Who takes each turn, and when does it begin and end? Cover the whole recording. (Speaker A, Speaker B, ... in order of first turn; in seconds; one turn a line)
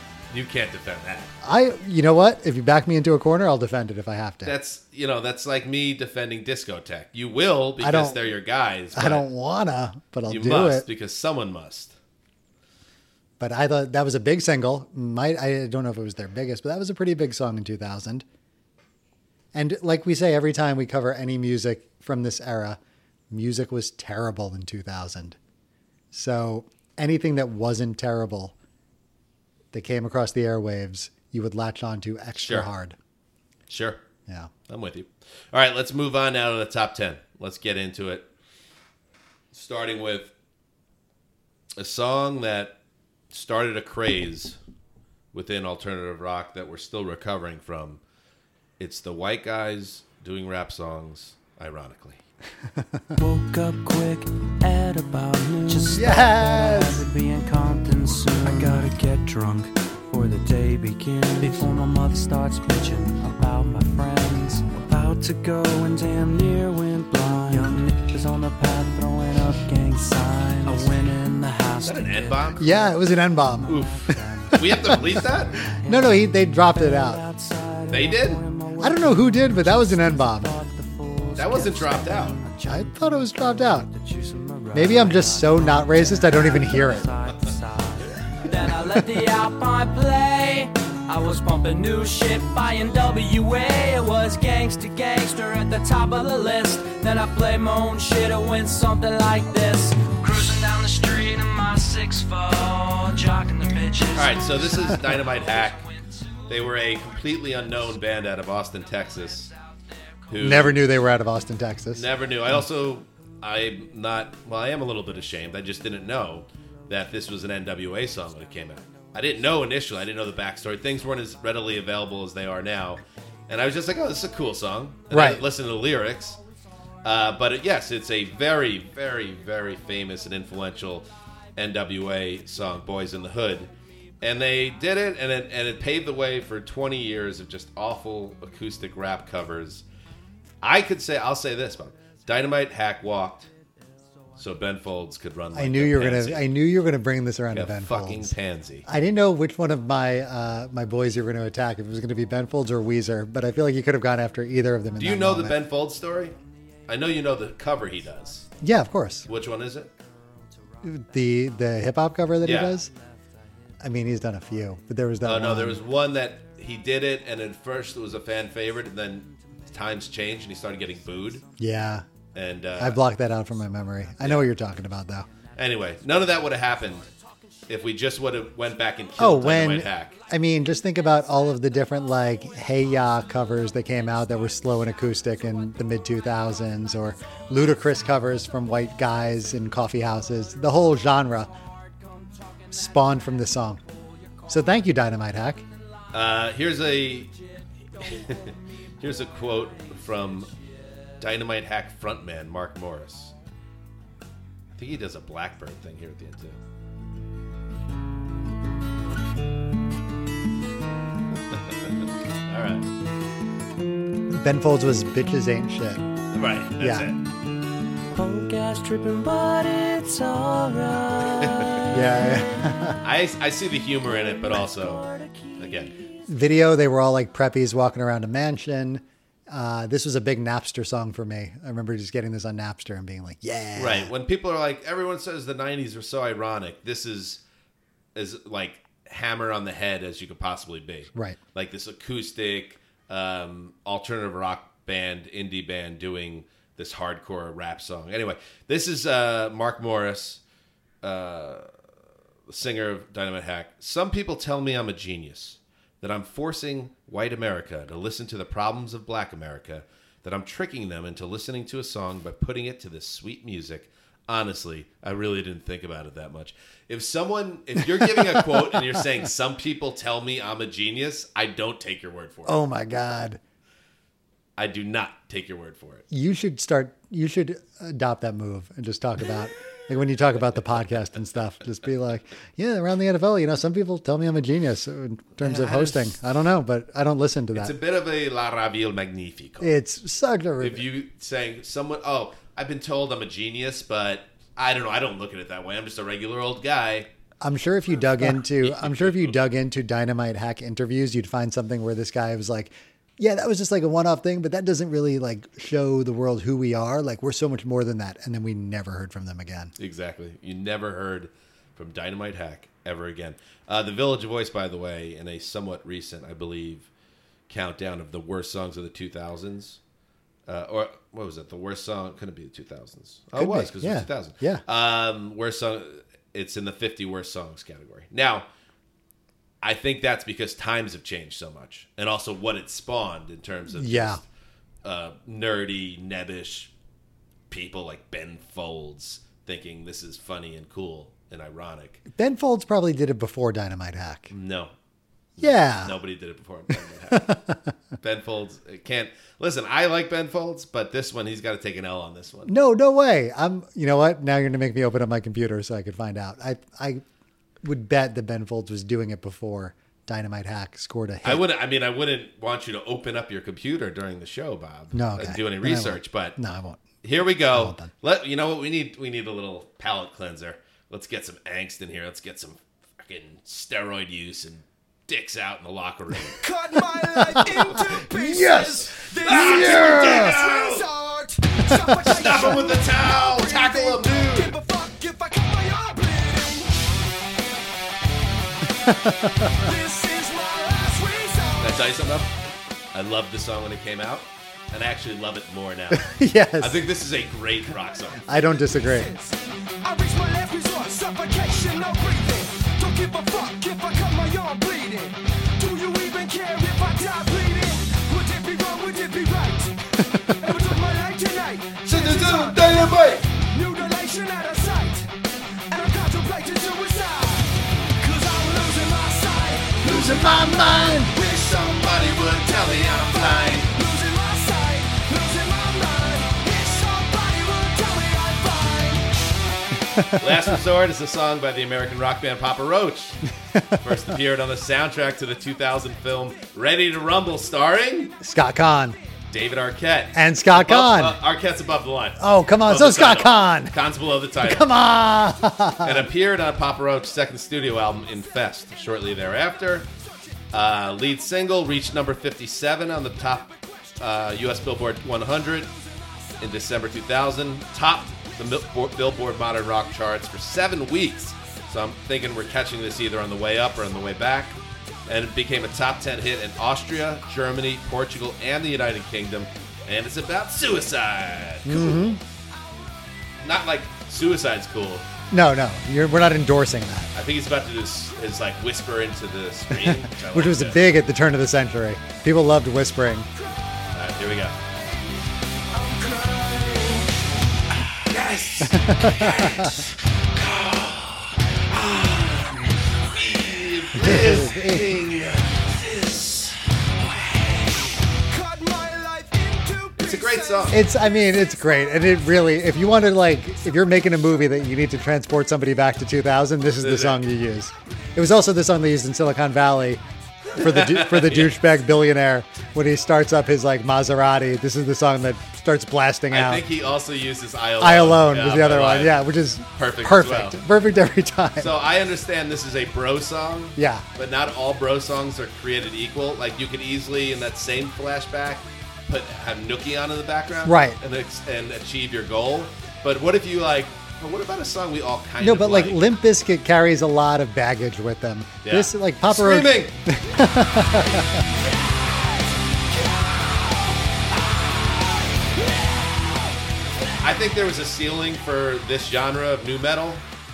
Speaker A: 0.3-1.3
Speaker B: 1.4-4.5
Speaker A: 4.5-9.3
Speaker B: 7.8-8.2
Speaker B: 8.9-10.9
Speaker A: 10.3-11.9
Speaker B: 13.4-18.2
Speaker B: 19.5-22.8
Speaker B: 23.3-25.4
Speaker B: 26.1-28.5
Speaker B: 29.7-33.0
Speaker A: 32.4-32.7
Speaker A: 33.7-34.0
Speaker A: 34.7-38.3
Speaker A: 39.5-40.3
Speaker A: 41.8-42.8
Speaker A: 43.3-44.6
Speaker A: 45.3-48.0
Speaker A: 48.8-52.2
Speaker B: 52.8-53.1
Speaker C: 53.2-72.8
Speaker B: 55.9-57.0
Speaker A: 71.8-72.7
Speaker B: 72.6-73.7
Speaker C: 73.3-105.9
Speaker A: 73.7-73.9
Speaker A: 74.5-75.6
Speaker B: 74.6-75.2
Speaker B: 75.8-77.2
Speaker A: 77.9-78.4
Speaker B: 78.8-80.5
Speaker A: 81.4-82.4
Speaker B: 82.7-83.9
Speaker B: 84.7-87.1
Speaker A: 104.2-105.8
Speaker A: 106.5-109.5
Speaker A: 110.3-110.9
Speaker B: 110.4-112.1
Speaker A: 111.9-126.4
Speaker B: 125.1-125.5
Speaker A: 127.0-133.7
Speaker A: 134.2-139.8
Speaker A: 140.6-143.5
Speaker A: 144.4-146.5
Speaker B: 145.5-148.3
Speaker A: 147.5-148.9
Speaker B: 148.9-155.6
Speaker A: 155.0-156.3
Speaker A: 156.9-158.5
Speaker B: 158.6-159.3
Speaker A: 159.3-159.9
Speaker B: 160.8-162.9
Speaker A: 162.4-162.8
Speaker B: 163.8-165.8
Speaker A: 165.2-171.4
Speaker B: 171.6-172.1
Speaker A: 172.3-173.1
Speaker B: 172.8-175.3
Speaker A: 174.2-174.5
Speaker A: 175.6-177.1
Speaker A: 177.7-180.2
Speaker B: 179.2-191.5
Speaker B: 192.7-193.8
Speaker B: 194.5-195.7
Speaker A: 196.1-197.3
Speaker A: 198.0-200.5
Speaker A: 201.2-203.3
Speaker A: 204.7-206.6
Speaker A: 211.5-212.9
Speaker B: 214.3-216.1
Speaker A: 216.3-217.2
Speaker B: 216.8-217.1
Speaker C: 218.1-222.0
Speaker A: 221.4-221.8
Speaker B: 221.9-223.0
Speaker A: 223.0-225.0
Speaker C: 224.1-226.3
Speaker A: 225.6-225.9
Speaker B: 226.3-234.1
Speaker A: 233.8-237.4
Speaker A: 238.2-250.4
Speaker A: 251.0-251.7
Speaker A: 252.5-272.6
Speaker B: 268.0-268.8
Speaker B: 272.5-273.4
Speaker A: 274.6-276.1
Speaker B: 276.1-287.7
Speaker A: 285.4-286.1
Speaker A: 287.6-289.8
Speaker B: 289.6-290.9
Speaker A: 290.6-297.1
Speaker B: 297.4-309.7
Speaker A: 298.2-299.3
Speaker A: 309.8-316.9
Speaker A: 317.5-319.8
Speaker A: 320.5-328.5
Speaker B: 323.4-324.6
Speaker A: 329.6-334.2
Speaker B: 333.7-334.2
Speaker A: 334.8-336.7
Speaker A: 337.5-342.0
Speaker B: 342.1-344.3
Speaker A: 344.3-344.7
Speaker A: 345.4-347.4
Speaker B: 345.4-346.0
Speaker B: 347.1-347.6
Speaker A: 348.0-352.5
Speaker B: 352.5-357.0
Speaker B: 357.6-361.5
Speaker A: 361.2-366.4
Speaker B: 364.9-367.9
Speaker A: 367.0-376.4
Speaker D: 376.4-386.7
Speaker B: 378.1-380.4
Speaker A: 379.2-380.9
Speaker A: 382.0-384.5
Speaker B: 388.9-389.5
Speaker D: 389.5-391.8
Speaker A: 391.6-392.3
Speaker A: 392.9-398.2
Speaker B: 395.9-396.8
Speaker B: 398.3-399.1
Speaker D: 398.7-409.8
Speaker D: 410.4-415.1
Speaker A: 411.9-413.3
Speaker D: 415.7-429.1
Speaker B: 419.8-421.2
Speaker A: 421.4-423.7
Speaker A: 430.2-433.2
Speaker A: 433.8-438.1
Speaker B: 438.2-439.0
Speaker A: 439.3-444.7
Speaker B: 440.1-441.2
Speaker B: 442.2-443.8
Speaker B: 444.4-446.1
Speaker A: 445.8-449.9
Speaker A: 450.5-455.7
Speaker A: 456.4-472.2
Speaker B: 471.6-472.2
Speaker A: 473.4-475.1
Speaker B: 475.3-477.1
Speaker A: 477.1-480.9
Speaker B: 479.7-483.3
Speaker A: 483.9-484.6
Speaker D: 485.7-487.1
Speaker A: 488.1-489.8
Speaker B: 488.6-489.7
Speaker A: 490.4-497.8
Speaker B: 494.0-494.9
Speaker D: 498.3-501.0
Speaker A: 500.0-500.8
Speaker B: 500.7-510.0
Speaker A: 506.8-507.2
Speaker A: 510.6-511.6
Speaker B: 510.6-516.7
Speaker A: 516.3-519.2
Speaker B: 517.8-521.8
Speaker A: 519.8-520.6
Speaker A: 521.6-536.1
Speaker B: 523.8-524.0
Speaker B: 530.6-531.0
Speaker B: 535.4-541.4
Speaker A: 538.6-540.0
Speaker D: 541.6-546.5
Speaker A: 547.2-550.2